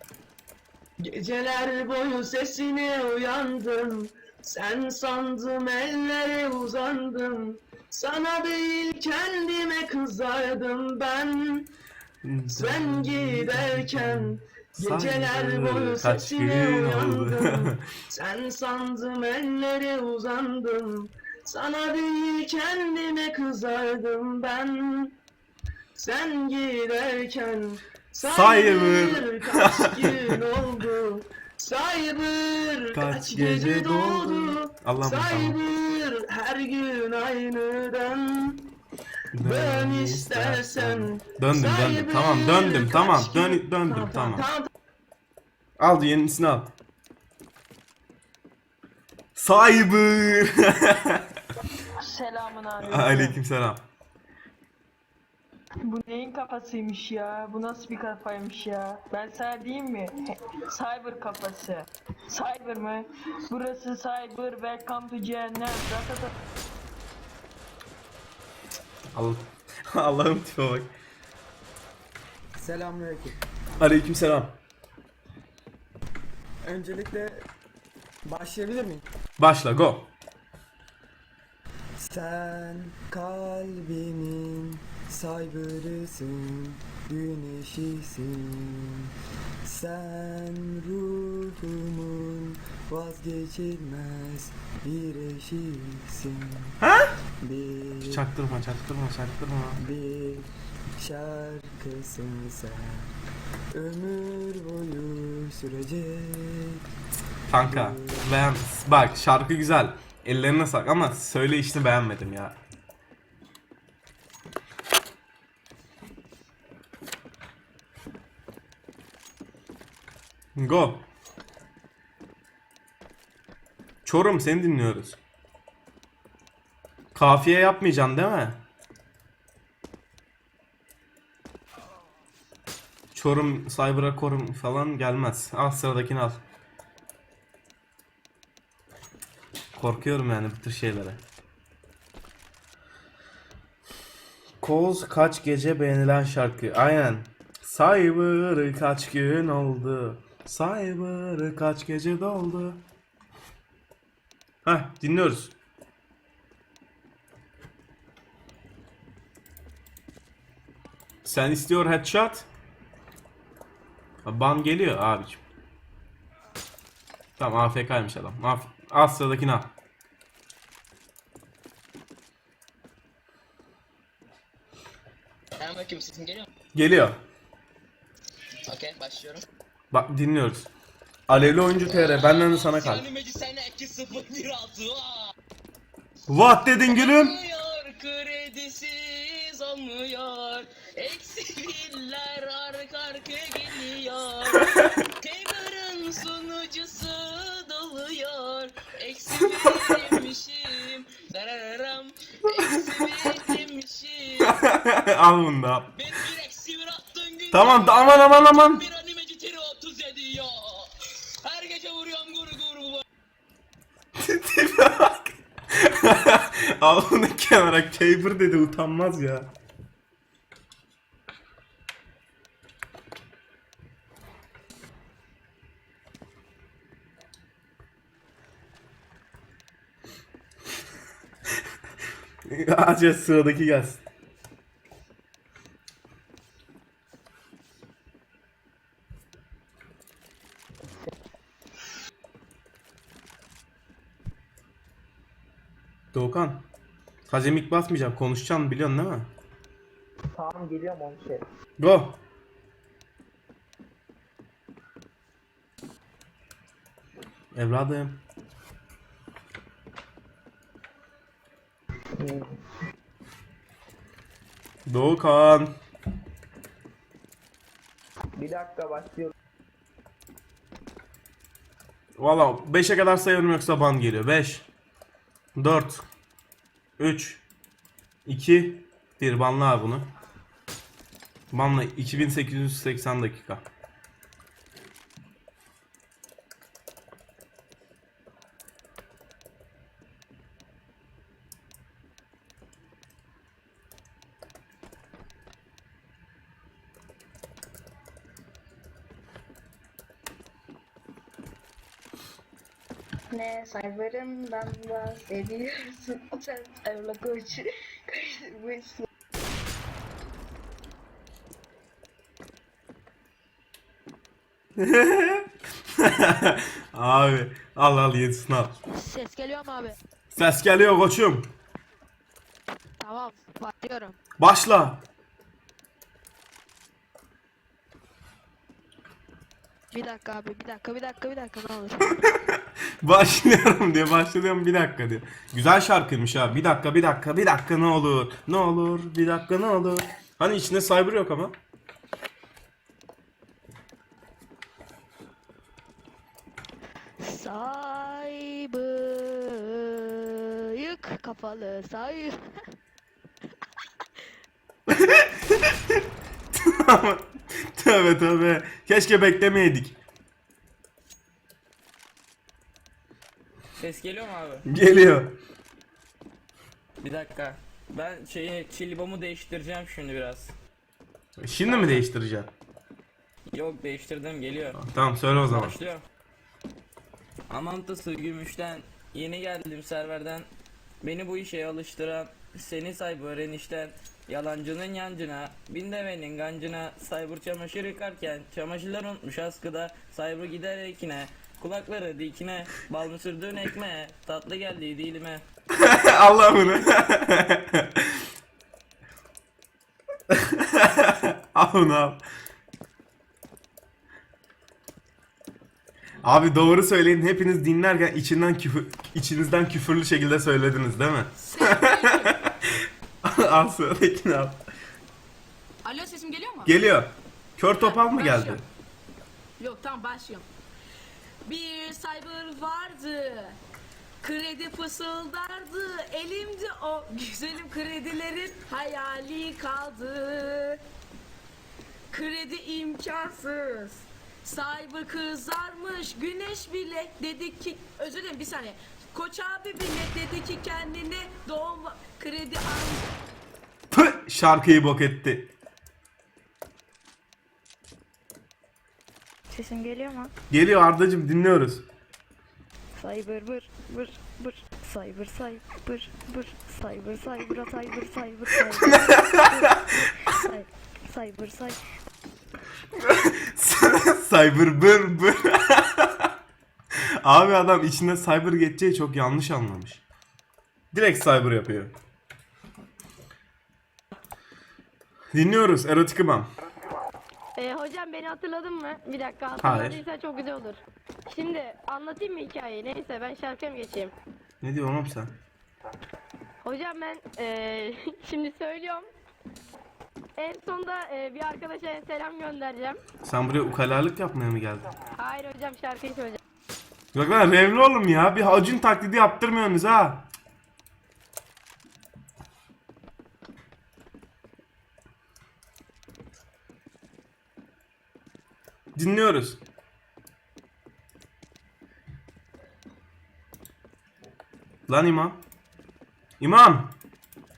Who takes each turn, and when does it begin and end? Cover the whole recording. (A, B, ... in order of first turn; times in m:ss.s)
0:01.0-0:11.7 A
0:12.2-0:17.8 B
0:12.5-0:25.2 A
0:26.0-0:38.7 A
0:28.2-0:30.3 B
0:32.9-0:35.6 B
0:39.3-0:44.4 B
0:39.4-0:44.7 A
0:45.8-0:46.7 B
0:49.4-0:51.2 B
0:52.0-0:53.4 C
0:52.8-0:53.8 B
0:55.8-1:06.3 C
1:09.1-1:10.9 B
1:12.5-1:13.4 D
1:13.8-1:14.6 B
1:16.6-1:17.4 D
1:18.2-1:19.0 D
1:19.4-1:20.1 B
1:22.0-1:29.1 D
1:29.6-1:36.8 D
1:36.8-1:37.1 B
1:37.4-1:38.3 D
1:38.0-1:39.8 B
1:39.8-1:43.1 D
1:43.7-1:46.8 D
1:47.5-1:52.6 B
1:47.5-1:48.4 D
2:00.5-2:01.1 B
2:04.0-2:05.2 B
2:07.1-2:08.6 B
2:13.1-2:16.4 B
2:19.8-2:21.2 B
2:24.6-2:32.8 B
2:34.6-2:35.5 B
2:41.2-2:42.5 B
2:44.2-2:45.4 B
2:47.4-2:49.7 B
2:55.6-2:56.5 E
2:56.8-2:57.2 B
2:58.7-2:59.4 E
2:59.9-3:00.7 B
3:01.3-3:03.0 B
3:01.8-3:05.3 E
3:06.3-3:07.4 B
3:06.9-3:24.6 E
3:24.5-3:25.9 B
3:25.9-3:30.9 E
3:27.5-3:28.8 B
3:31.4-3:33.0 E
3:34.2-3:39.5 B
3:52.5-3:54.0 B
4:06.1-4:06.6 B
4:07.3-4:09.3 B
4:10.4-4:11.4 A
4:11.8-4:12.2 B
4:17.5-4:18.2 B
4:24.9-4:25.8 B
4:28.4-4:29.3 A
4:32.2-4:34.6 B
4:35.6-4:36.0 B
4:37.0-4:37.4 B
4:38.2-4:40.1 B
4:41.5-4:43.6 B
5:03.3-5:09.0 F
5:14.8-5:18.8 B
5:18.9-5:19.9 G
5:20.3-5:21.5 B
5:23.0-5:24.2 G
5:24.4-5:25.0 B
5:29.9-5:32.1 G
5:33.0-5:41.6 B
5:47.2-5:49.4 G
5:50.7-5:52.3 G
5:51.5-5:51.9 H
5:54.9-5:56.0 B
5:56.5-6:00.0 B
6:03.8-6:04.6 I
6:04.6-6:05.4 B
6:07.0-6:10.5 I
6:11.4-6:12.5 B
6:11.6-6:12.0 I
6:13.5-6:14.8 I
6:14.8-6:15.8 B
6:15.4-6:16.0 I
6:17.5-6:20.5 I
6:21.0-6:35.4 I
6:35.7-6:38.2 B
6:40.3-6:42.2 B
6:46.2-6:52.5 B
6:51.4-6:52.4 J
6:53.2-6:54.6 B
6:55.8-6:56.7 J
6:56.6-6:58.6 B
6:57.7-6:58.6 J
6:59.6-7:00.5 J
7:01.4-7:03.6 J
7:04.2-7:10.8 J
7:12.1-7:23.0 J
7:23.9-7:25.5 B
7:29.5-7:30.3 H
7:30.5-7:31.8 B
7:33.0-7:41.8 H
7:38.8-7:39.9 B
7:43.0-7:46.3 B
7:47.2-7:50.0 B
7:50.9-7:51.9 B
7:55.3-7:56.5 B
7:57.6-8:04.1 K
7:59.6-8:00.0 B
8:04.6-8:05.3 B
8:06.6-8:09.1 K
8:10.4-8:13.0 K
8:13.2-8:14.8 B
8:15.2-8:16.4 K
8:17.1-8:20.2 B
8:28.9-8:29.6 B
8:34.9-8:35.4 B
8:36.4-8:36.9 B